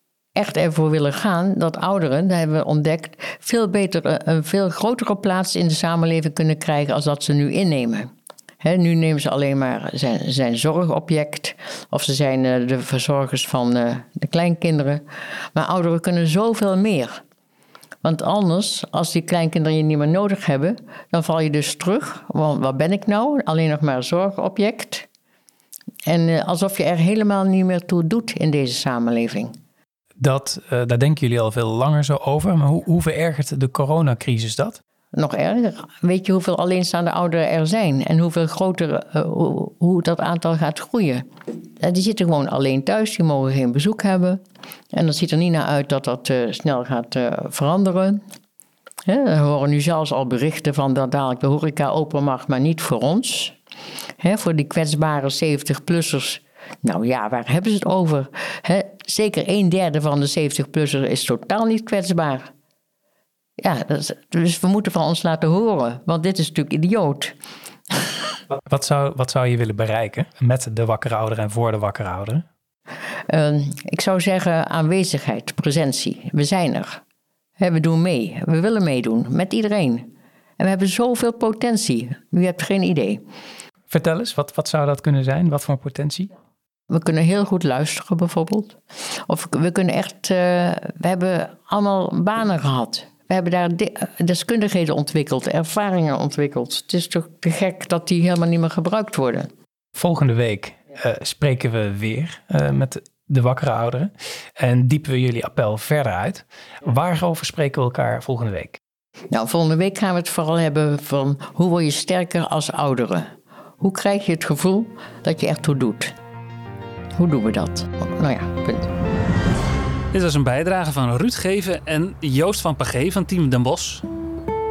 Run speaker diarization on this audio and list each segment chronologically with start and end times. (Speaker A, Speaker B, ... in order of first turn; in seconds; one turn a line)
Speaker A: 0.4-8.1
Speaker A: 8.6-17.2
Speaker A: 18.0-25.1
Speaker A: 26.1-29.6
Speaker B: 30.2-34.8
Speaker A: 35.1-41.3
Speaker A: 41.8-44.4
Speaker A: 44.9-48.2
Speaker A: 49.1-53.6
Speaker A: 54.2-62.5
Speaker A: 63.6-67.4
Speaker B: 68.7-72.5
Speaker A: 73.3-77.0
Speaker A: 77.6-83.2
Speaker B: 83.9-86.3
Speaker A: 86.9-99.5
Speaker B: 100.0-108.8
Speaker A: 109.3-116.1
Speaker A: 117.2-118.9
Speaker C: 120.1-124.0